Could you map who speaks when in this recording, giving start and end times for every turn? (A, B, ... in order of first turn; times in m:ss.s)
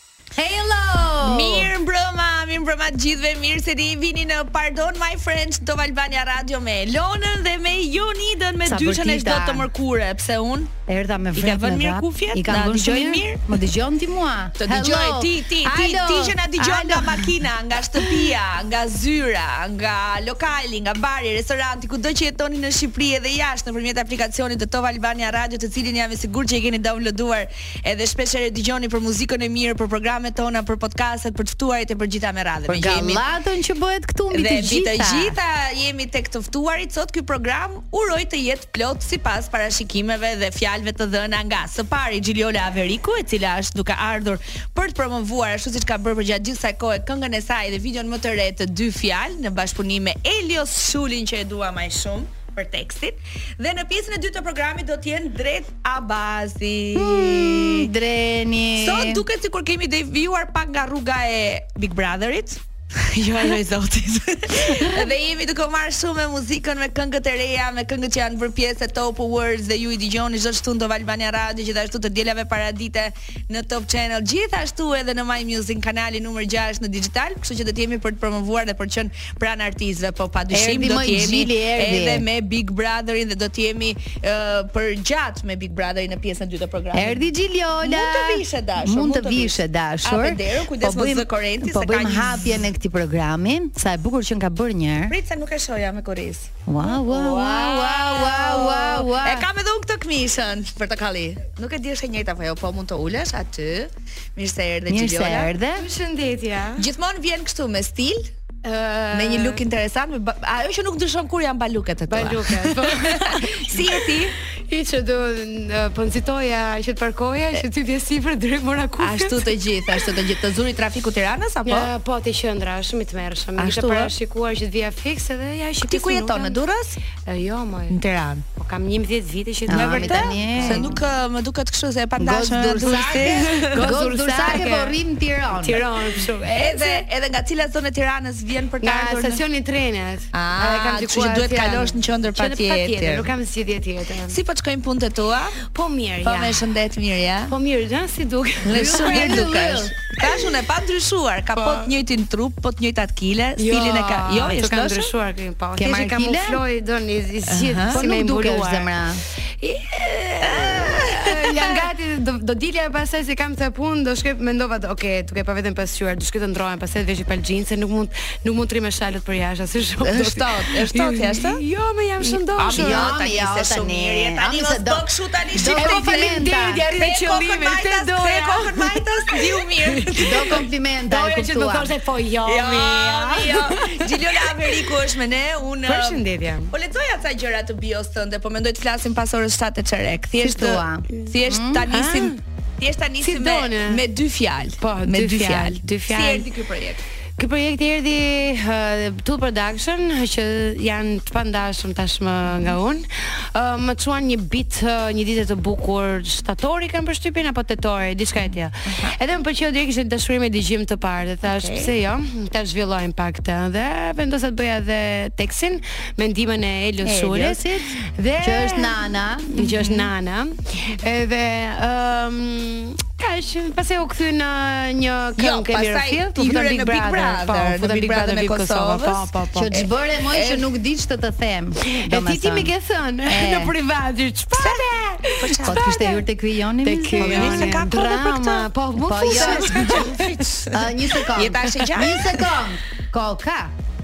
0:00.3-0:01.7 A
0:01.2-0:10.7 B
0:08.6-0:09.7 A
0:10.9-0:17.4 A
0:11.3-0:13.4 B
0:14.6-0:33.2 B
0:18.0-0:18.3 A
0:32.7-0:35.4 A
0:34.3-0:57.9 B
0:56.9-0:59.2 A
0:58.8-1:27.2 B
1:04.5-1:05.0 C
1:20.5-1:22.2 A
1:26.9-1:35.2 A
1:27.8-1:32.7 B
1:35.1-1:45.5 B
1:36.7-1:39.5 A
1:44.9-1:45.8 A
1:45.8-1:46.9 C
1:46.8-1:48.2 B
1:48.6-1:49.6 C
1:49.1-1:54.3 B
1:52.1-1:59.6 C
1:59.0-2:01.9 B
2:01.7-2:06.6 C
2:03.6-2:04.1 B
2:05.9-2:07.0 B
2:07.2-2:08.0 C
2:07.9-2:08.4 B
2:08.5-2:10.9 C
2:09.7-2:11.0 A
2:09.7-2:14.0 B
2:12.2-2:15.9 A
2:13.0-2:15.0 C
2:15.5-2:17.1 C
2:16.4-2:19.4 B
2:18.8-2:24.4 C
2:20.3-2:23.3 B
2:24.3-2:25.6 B
2:25.6-2:26.7 C
2:26.2-2:27.5 B
2:27.5-2:29.6 C
2:28.6-2:35.1 B
2:28.7-2:29.9 A
2:31.6-2:31.9 C
2:33.6-2:38.9 C
2:35.8-2:36.6 A
2:37.5-2:38.0 B
2:37.9-2:39.2 A
2:39.6-2:53.2 C
2:40.4-2:41.8 B
2:50.0-2:51.6 B
2:52.5-3:00.6 B
2:52.7-2:56.9 A
2:55.6-3:04.9 C
3:00.2-3:01.9 A
3:02.4-3:17.0 B
3:05.8-3:06.7 C
3:10.4-3:11.8 A
3:11.9-3:12.4 C
3:13.2-3:14.0 C
3:14.8-3:16.5 C
3:17.4-3:49.7 C
3:28.9-3:29.1 B
3:31.4-3:31.9 B
3:37.0-3:37.9 A
3:38.4-3:39.5 A
3:39.6-3:40.1 B
3:45.4-3:50.7 B
3:49.5-3:52.7 A
3:51.8-3:56.2 C
3:53.3-3:53.7 A
3:54.5-3:55.8 B
3:55.6-3:57.8 A
3:56.8-4:00.6 C
3:57.2-3:58.7 B
3:59.0-4:00.1 A
3:59.2-4:02.5 B
4:00.7-4:03.7 A